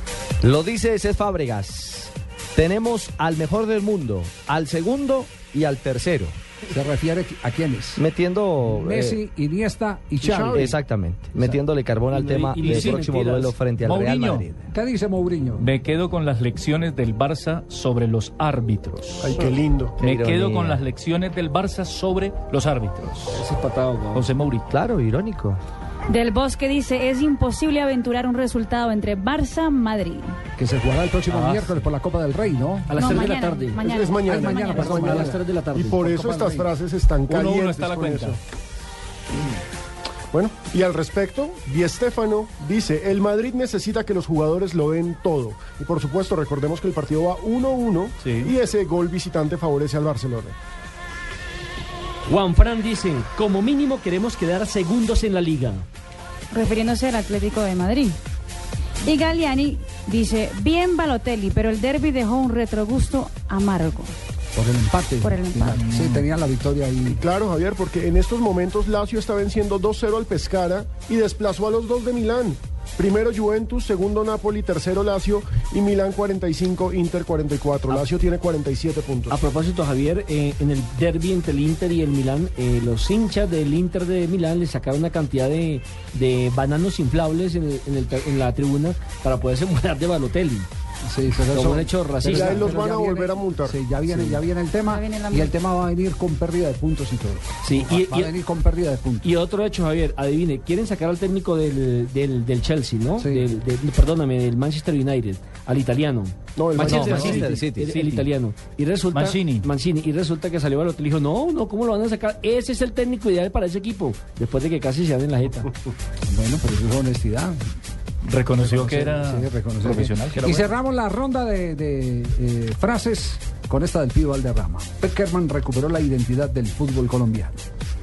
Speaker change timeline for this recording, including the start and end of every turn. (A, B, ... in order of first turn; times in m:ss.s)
0:00.4-0:06.4 A
0:06.7-0:08.0 B
0:08.0-0:09.2 A
0:08.7-0:10.8 B
0:10.2-0:10.7 C
0:10.5-0:14.6 A
0:12.1-0:13.5 D
0:12.6-0:13.0 E
0:13.8-0:14.5 E
0:14.7-0:15.7 B
0:15.6-0:23.4 E
0:19.2-0:20.0 C
0:20.0-0:20.8 A
0:23.3-0:24.3 D
0:24.1-0:24.7 E
0:24.7-0:25.6 A
0:26.1-0:30.4 F
0:30.6-0:33.2 B
0:31.3-0:31.8 D
0:32.9-0:33.9 D
0:32.9-0:35.0 F
0:33.8-0:38.4 C
0:34.2-0:35.4 B
0:34.7-0:36.0 D
0:36.0-0:36.7 B
0:37.3-0:38.4 E
0:40.3-0:50.6 C
0:48.2-0:48.5 E
0:52.3-0:55.8 D
0:56.5-0:58.2 F
0:59.0-1:04.1 F
1:04.6-1:07.2 B
1:05.2-1:05.8 F
1:05.8-1:06.2 E
1:07.1-1:19.4 C
1:19.3-1:30.7 D
1:31.0-1:39.3 B
1:31.5-1:32.8 D
1:32.2-1:33.8 C
1:34.1-1:34.4 D
1:34.8-1:35.5 F
1:37.6-1:38.3 D
1:39.2-1:55.8 D
1:43.2-1:43.4 B
1:46.6-1:47.3 C
1:46.8-1:48.0 A
1:46.8-1:48.3 E
1:49.1-1:49.7 E
1:56.2-1:57.6 B
1:58.2-2:00.7 E
1:58.6-2:07.5 B